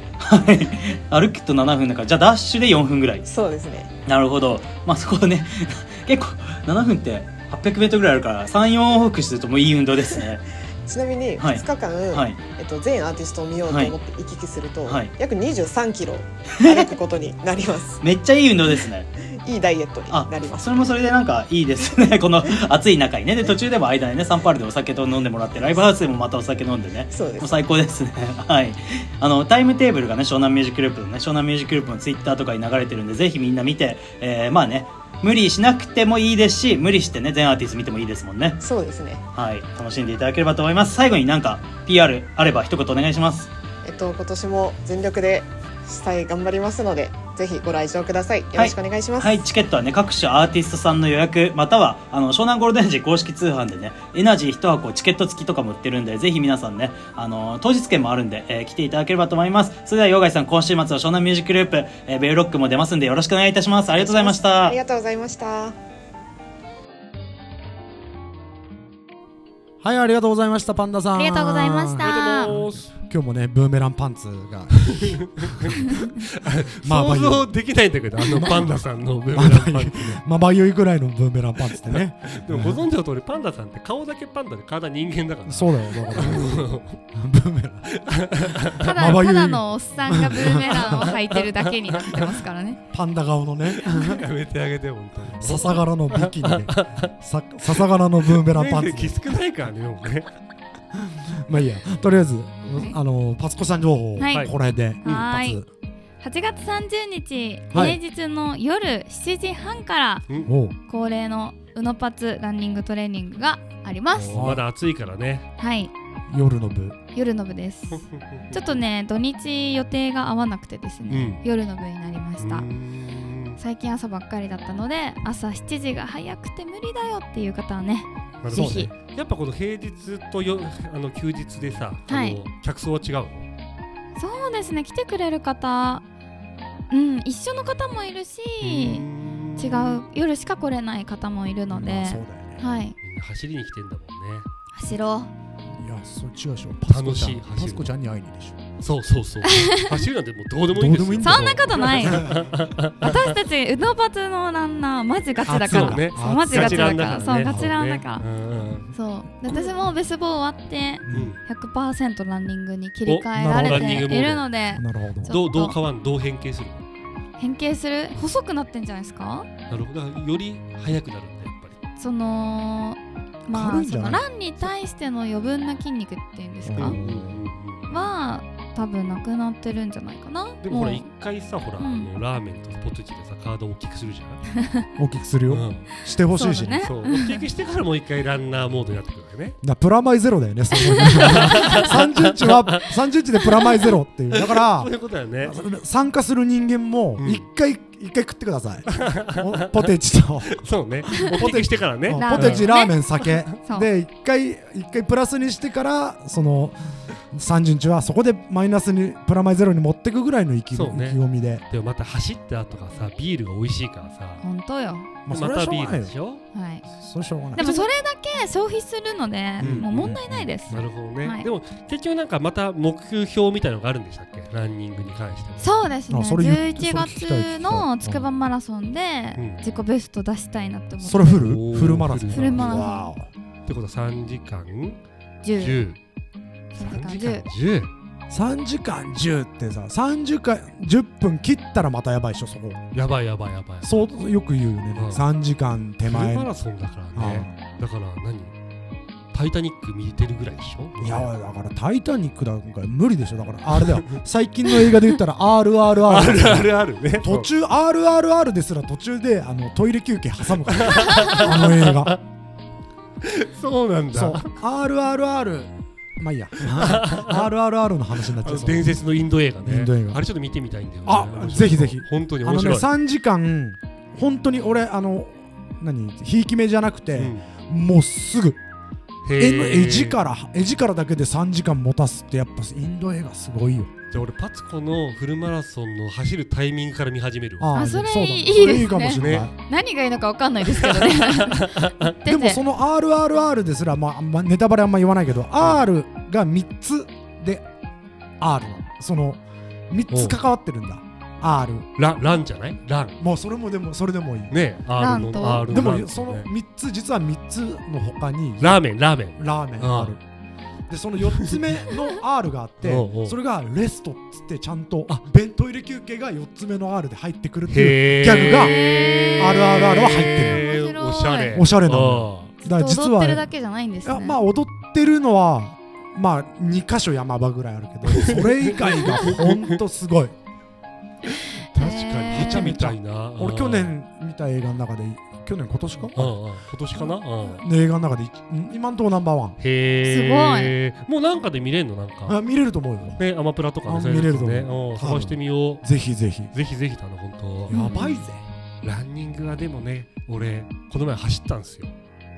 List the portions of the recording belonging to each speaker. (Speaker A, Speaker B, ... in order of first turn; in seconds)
Speaker A: 0.2-3.3, 4.1-10.4, 11.4-12.4, 13.7-13.9, 14.9-15.1, 16.6-16.9, 18.0-19.1, 20.1-38.6, 39.4-43.5, 48.5-64.8
Speaker B: 3.3-3.9, 10.9-18.0, 19.4-21.0, 27.1-27.6, 38.6-39.2, 43.8-49.4, 64.0-65.8
Speaker C: 69.8-75.9, 76.8-77.5, 78.2-78.8, 79.3-82.8, 85.5-88.0, 88.5-91.1, 92.9-94.2, 95.4-99.2, 101.0-105.7, 107.7-108.0, 110.5-110.8, 114.3-114.6, 116.3-117.0, 128.5-128.9, 141.7-142.6, 145.7-148.6, 150.7-152.5, 155.4-157.8, 161.1-161.3, 163.3-164.1, 164.7-165.4, 173.5-174.7, 176.6-177.4, 185.0-186.9, 189.6-194.9, 195.4-206.8, 207.3-211.6, 215.3-216.1, 216.9-217.9, 219.6-220.8, 226.1-228.3, 231.0-233.3, 238.3-242.8, 243.8-246.5, 247.1-247.5, 251.0-262.1, 264.1-268.9, 269.6-270.2, 271.1-278.6, 279.4-283.9, 287.6-289.5, 292.2-297.6, 298.4-301.9, 303.2-304.6, 305.4-308.8, 309.4-310.2, 310.9-318.8, 319.4-320.7, 321.5-323.5, 324.0-330.4, 332.3-336.4, 337.5-339.6, 342.3-343.2, 343.9-346.5, 347.7-348.4
Speaker D: 71.2-72.5, 88.8-92.8, 104.2-105.6, 106.2-110.2, 110.9-114.5, 115.6-115.9, 117.1-122.7, 123.6-128.9, 132.1-132.4, 134.2-136.0, 136.9-139.1, 139.6-143.0, 144.7-145.3, 149.5-149.9, 151.2-152.3, 153.0-158.3, 158.9-165.8, 167.4-169.5, 172.0-177.0, 177.9-181.1, 181.8-182.1, 184.6-184.9, 186.3-187.3, 190.8-191.8, 202.1-203.0, 203.6-203.9, 214.4-215.1, 216.5-216.8, 217.6-221.5, 225.6-231.5, 232.3-233.1, 235.4-235.8, 236.7-237.5, 287.7-292.6, 305.0-305.7, 318.6-321.6, 322.6-324.4, 331.8-332.7, 340.0-340.8, 347.7-348.2
Speaker E: 72.0-72.9, 74.8-80.2, 81.8-87.0, 87.9-89.2, 90.6-92.3, 93.7-97.1, 98.3-100.3, 114.1-115.5, 117.9-118.7, 121.1-121.4, 122.4-123.6, 128.4-133.5, 138.6-140.0, 143.0-144.5, 146.9-147.9, 148.8-153.4, 155.5-158.9, 161.1-161.4, 163.1-164.5, 165.3-166.9, 169.7-171.8, 176.8-178.1, 180.6-184.4, 185.5-185.9, 186.8-189.6, 191.2-192.9, 194.3-195.6, 197.2-197.5, 198.9-199.9, 200.5-202.7, 210.7-214.4, 215.3-216.4, 219.6-220.2, 220.7-225.8, 229.4-229.6, 231.4-232.7, 233.7-235.0, 235.6-236.0, 236.8-237.9, 242.9-244.1, 244.9-245.3, 246.1-248.5, 249.3-251.3, 253.7-255.0, 256.0-257.5, 260.7-262.2, 263.2-264.5, 266.7-267.5, 268.4-272.9, 277.1-277.5, 279.2-280.2, 284.1-287.8, 288.9-289.5, 290.7-292.1, 295.6-295.9, 300.1-300.4, 302.0-303.2, 304.5-306.5, 308.6-310.2, 311.3-311.6, 312.8-313.4, 317.7-322.5, 328.1-329.8, 331.8-333.9, 336.1-337.7, 339.6-342.4, 343.2-345.9, 346.5-348.1, 348.8-351.9